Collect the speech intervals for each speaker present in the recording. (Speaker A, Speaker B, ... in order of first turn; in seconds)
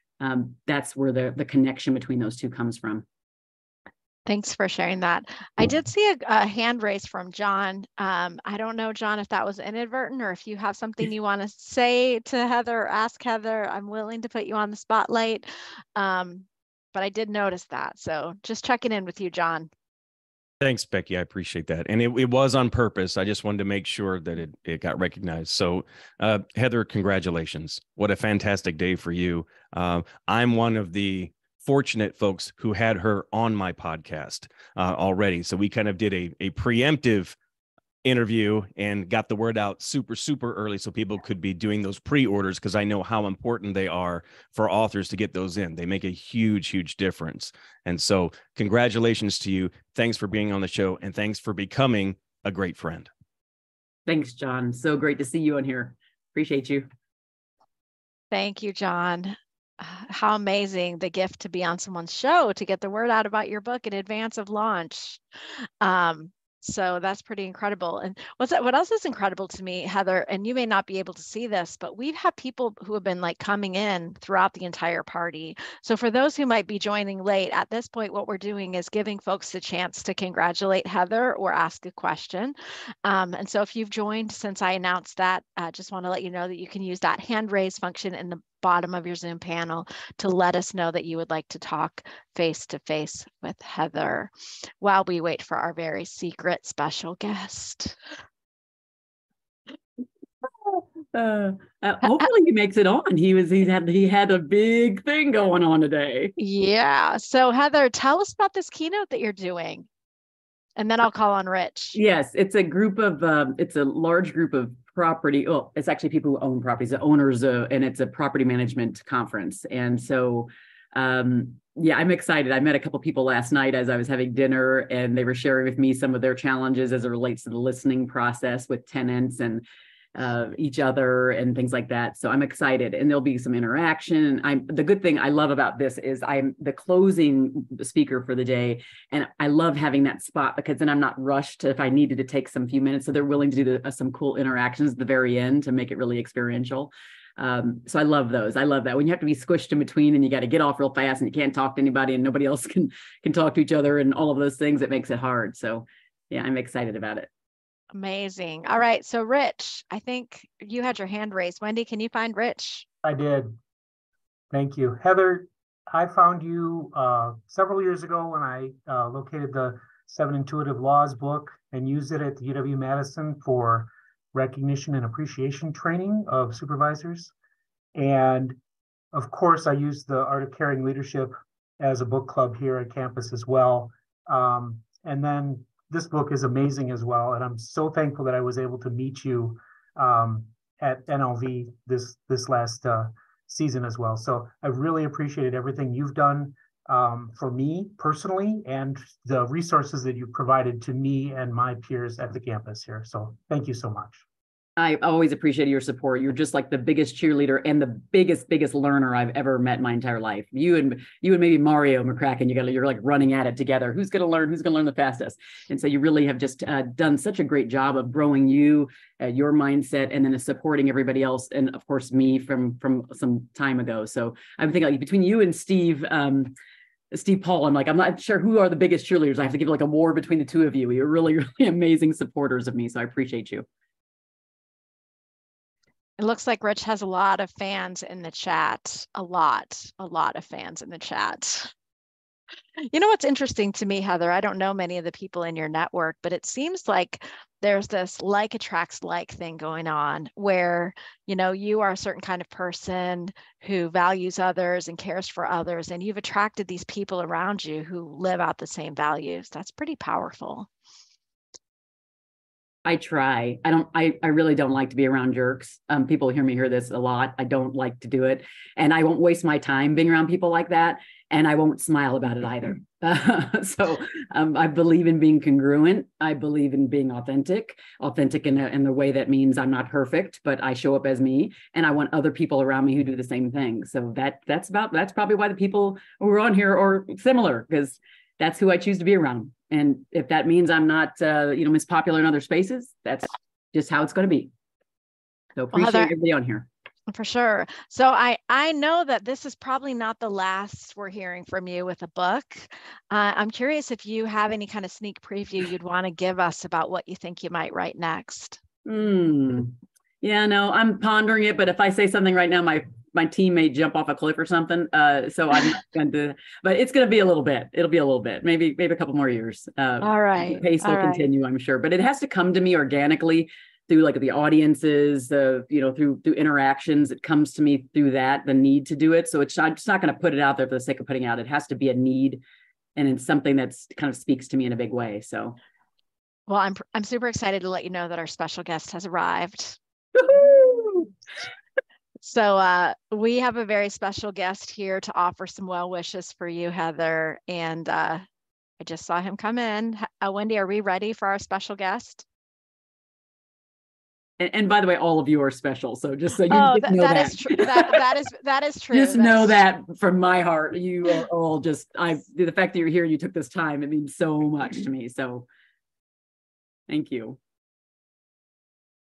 Speaker A: 0.2-3.0, 54.1-56.8, 100.7-106.3, 111.9-129.6, 130.1-157.3, 204.8-226.5, 227.1-233.7, 262.9-294.5, 295.6-296.7, 308.9-332.4, 332.9-335.6, 340.2-341.1, 354.4-357.9, 358.9-365.4, 366.9-367.4
Speaker B: 4.2-19.7, 58.3-65.2, 65.8-98.0, 106.4-109.9, 110.8-112.0, 157.9-162.8, 236.2-241.7, 242.9-260.7, 295.7-296.1, 297.1-308.6, 320.0-321.2, 336.5-339.8, 342.2-348.2, 348.8-352.2, 356.5-359.6
Speaker C: 20.6-37.4, 38.0-53.1
Speaker D: 163.0-163.5, 164.5-177.3, 177.9-178.6, 179.1-204.2